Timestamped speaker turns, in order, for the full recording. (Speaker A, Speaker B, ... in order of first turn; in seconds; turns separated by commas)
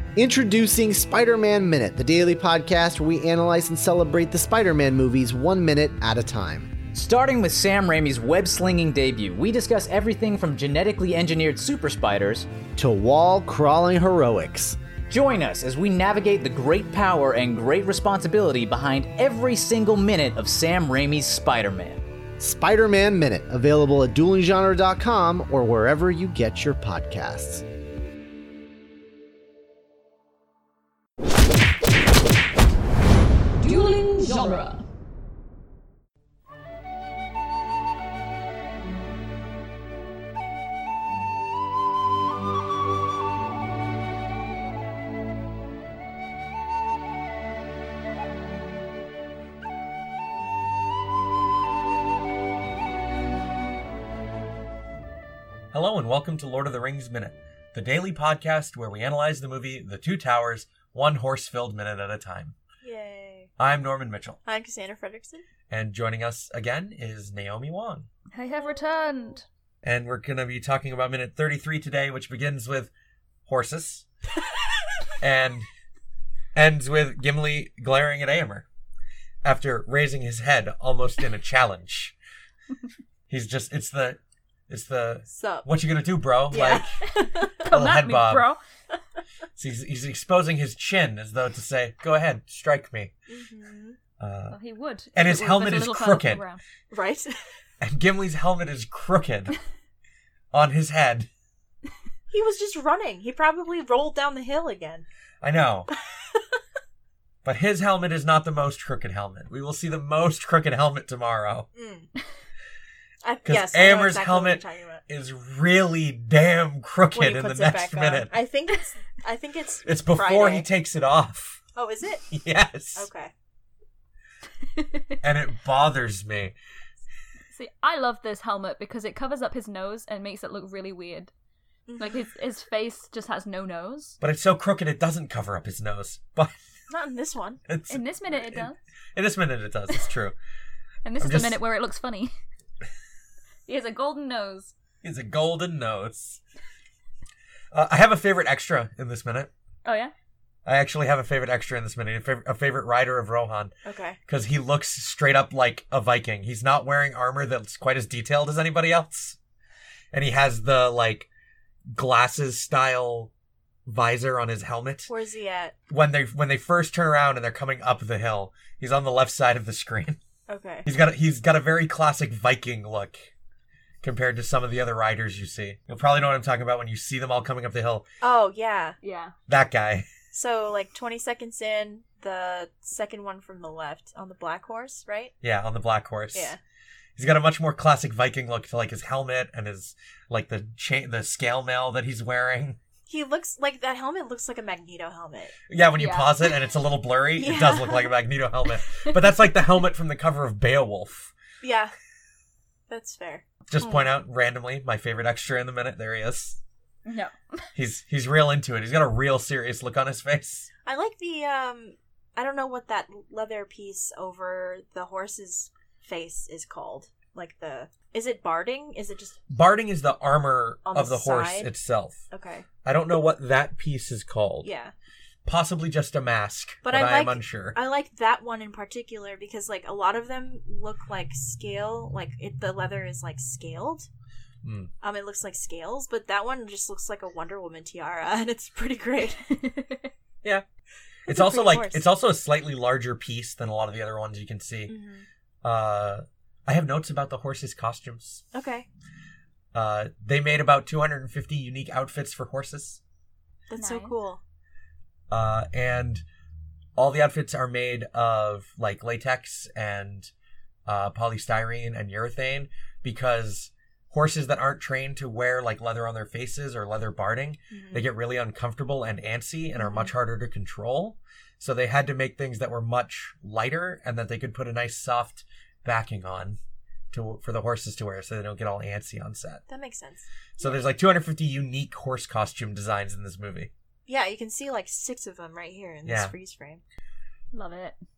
Speaker A: 0.1-6.7, Speaker B: 6.9-12.5, Speaker A: 12.8-14.8, Speaker B: 15.1-22.0, Speaker A: 22.4-27.6, Speaker C: 33.6-34.8, Speaker D: 55.7-62.5, Speaker E: 62.8-63.5, Speaker D: 63.6-64.4, Speaker E: 64.4-65.5, Speaker D: 65.7-68.1, Speaker C: 68.3-69.4, Speaker D: 69.8-72.9, Speaker D: 73.5-74.0, Speaker D: 75.2-75.7, Speaker D: 76.5-78.7, Speaker D: 79.4-82.2, Speaker D: 83.3-86.9, Speaker E: 85.3-85.7, Speaker E: 86.5-87.5, Speaker C: 87.1-88.6, Speaker D: 87.6-88.5, Speaker D: 89.6-93.1, Speaker E: 93.3-94.0, Speaker D: 94.2-94.6, Speaker C: 94.5-96.6, Speaker D: 95.1-96.4, Speaker E: 96.9-97.3, Speaker D: 97.8-99.5, Speaker D: 100.5-101.3, Speaker E: 102.3-105.0, Speaker D: 105.4-105.9, Speaker D: 107.4-111.7, Speaker E: 111.7-112.1, Speaker E: 113.2-115.0, Speaker D: 113.5-118.3, Speaker E: 117.1-120.7, Speaker D: 119.8-121.6, Speaker E: 121.7-122.3, Speaker D: 122.3-123.1, Speaker E: 122.9-123.3, Speaker D: 125.2-126.5, Speaker C: 127.5-131.3, Speaker E: 131.9-132.2, Speaker C: 132.0-134.2, Speaker D: 134.2-136.5, Speaker E: 136.9-137.6, Speaker D: 137.7-140.3, Speaker C: 137.9-138.8, Speaker C: 141.0-142.3, Speaker D: 141.2-141.6, Speaker C: 143.7-144.7, Speaker D: 145.0-146.4, Speaker D: 147.7-149.5, Speaker C: 149.8-150.1, Speaker D: 150.7-153.7, Speaker E: 153.8-154.2, Speaker D: 154.3-159.4, Speaker D: 160.1-161.3, Speaker D: 161.9-163.3, Speaker D: 163.8-165.1, Speaker E: 165.1-165.8, Speaker D: 165.9-170.2, Speaker E: 170.5-170.9, Speaker D: 170.8-173.3, Speaker D: 174.0-178.0, Speaker E: 178.2-179.0, Speaker C: 179.0-179.3, Speaker D: 179.5-180.1, Speaker E: 180.3-185.3, Speaker D: 185.4-186.5, Speaker E: 186.3-186.6, Speaker D: 187.2-192.8, Speaker E: 193.1-195.6, Speaker D: 195.7-201.3, Speaker C: 196.0-196.3, Speaker E: 197.4-198.1, Speaker E: 201.6-201.9, Speaker E: 202.9-204.1, Speaker D: 203.7-206.6, Speaker C: 207.1-207.6, Speaker D: 207.8-210.7, Speaker E: 210.8-219.4, Speaker D: 219.5-222.2, Speaker E: 220.8-221.7, Speaker E: 222.3-222.7, Speaker D: 222.8-224.7, Speaker E: 224.6-224.9, Speaker D: 225.4-227.8, Speaker E: 226.8-234.1, Speaker D: 234.6-234.9, Speaker E: 235.0-239.6, Speaker C: 239.6-240.1, Speaker D: 241.2-244.9, Speaker E: 241.3-242.0, Speaker E: 244.9-245.2, Speaker D: 245.6-248.4, Speaker E: 248.5-248.9, Speaker D: 249.7-253.0, Speaker E: 253.7-254.4, Speaker C: 253.8-254.1, Speaker D: 255.3-256.2, Speaker D: 256.9-260.3, Speaker D: 260.9-276.6, Speaker E: 267.7-268.0, Speaker E: 269.8-270.1, Speaker D: 277.1-279.6, Speaker E: 279.7-280.7, Speaker D: 280.6-283.7, Speaker E: 284.1-286.8, Speaker D: 286.0-286.3, Speaker C: 287.5-288.0